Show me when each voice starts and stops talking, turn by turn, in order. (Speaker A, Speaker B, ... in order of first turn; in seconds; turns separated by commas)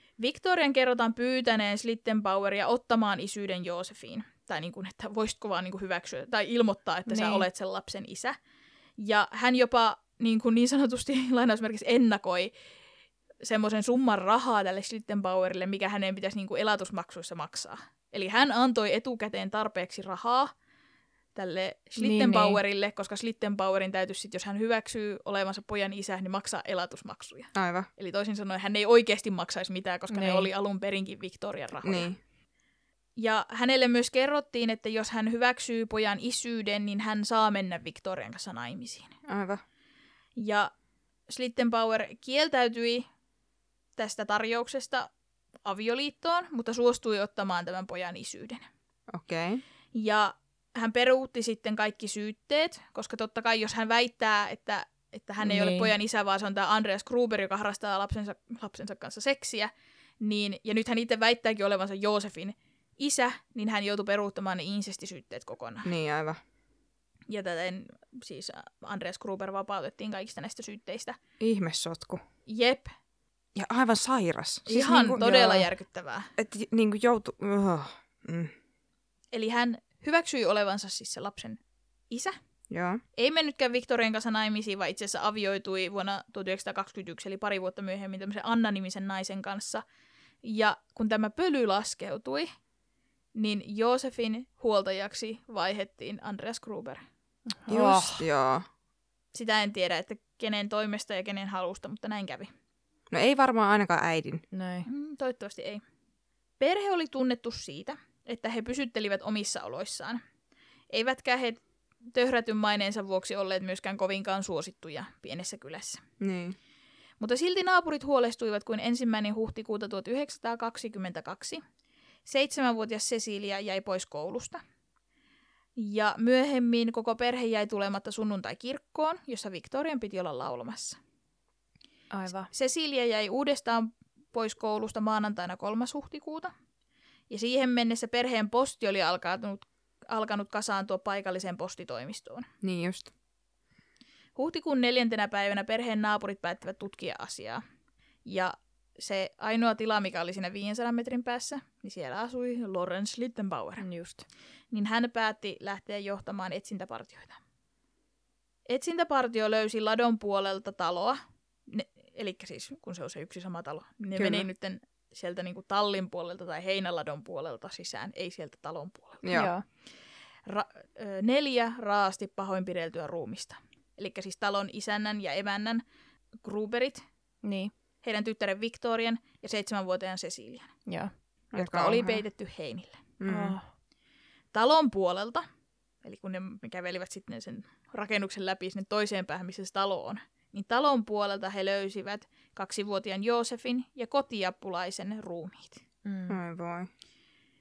Speaker A: 0.2-8.4, Speaker B: 7.1-7.5, Speaker A: 9.0-12.5, Speaker A: 13.4-20.5, Speaker A: 21.4-32.1, Speaker B: 22.0-22.6, Speaker C: 27.6-27.9, Speaker B: 30.1-30.5, Speaker C: 31.8-32.2, Speaker A: 33.2-39.1, Speaker C: 39.3-39.6, Speaker A: 40.4-40.7, Speaker A: 41.3-43.1, Speaker A: 44.0-45.1, Speaker A: 45.6-48.7, Speaker C: 49.1-49.6, Speaker A: 49.9-65.9, Speaker B: 55.4-55.9, Speaker C: 65.8-66.4, Speaker A: 67.3-71.2, Speaker C: 71.4-72.2, Speaker A: 72.5-72.9, Speaker C: 73.5-75.7, Speaker A: 74.7-76.3, Speaker C: 76.4-78.5, Speaker A: 79.3-82.4, Speaker C: 82.7-83.0, Speaker A: 83.2-89.8, Speaker A: 90.4-92.5, Speaker A: 93.3-97.0, Speaker B: 97.5-98.2, Speaker C: 97.7-98.7, Speaker A: 99.3-102.5, Speaker C: 103.1-104.4, Speaker B: 104.5-104.9, Speaker A: 104.8-105.8, Speaker A: 106.6-110.2, Speaker A: 110.9-111.6, Speaker A: 112.1-116.0, Speaker C: 116.2-116.6, Speaker A: 117.2-121.6, Speaker A: 122.2-124.6, Speaker A: 125.8-131.0, Speaker B: 132.1-132.5, Speaker A: 132.5-136.5, Speaker A: 137.3-142.5, Speaker C: 142.6-143.1, Speaker A: 144.4-147.6, Speaker A: 148.3-153.9, Speaker B: 153.8-154.2, Speaker A: 154.7-157.4, Speaker A: 158.7-169.3, Speaker C: 164.2-164.5, Speaker C: 169.2-169.5, Speaker B: 169.3-169.6, Speaker A: 170.5-175.8, Speaker A: 176.4-177.0, Speaker B: 177.4-177.7, Speaker A: 178.0-180.7, Speaker B: 180.9-181.1, Speaker A: 181.5-183.0, Speaker C: 181.5-182.1, Speaker C: 183.2-183.6, Speaker B: 183.3-183.7, Speaker A: 184.5-185.4, Speaker A: 186.0-195.8, Speaker B: 196.1-196.4, Speaker C: 196.3-196.9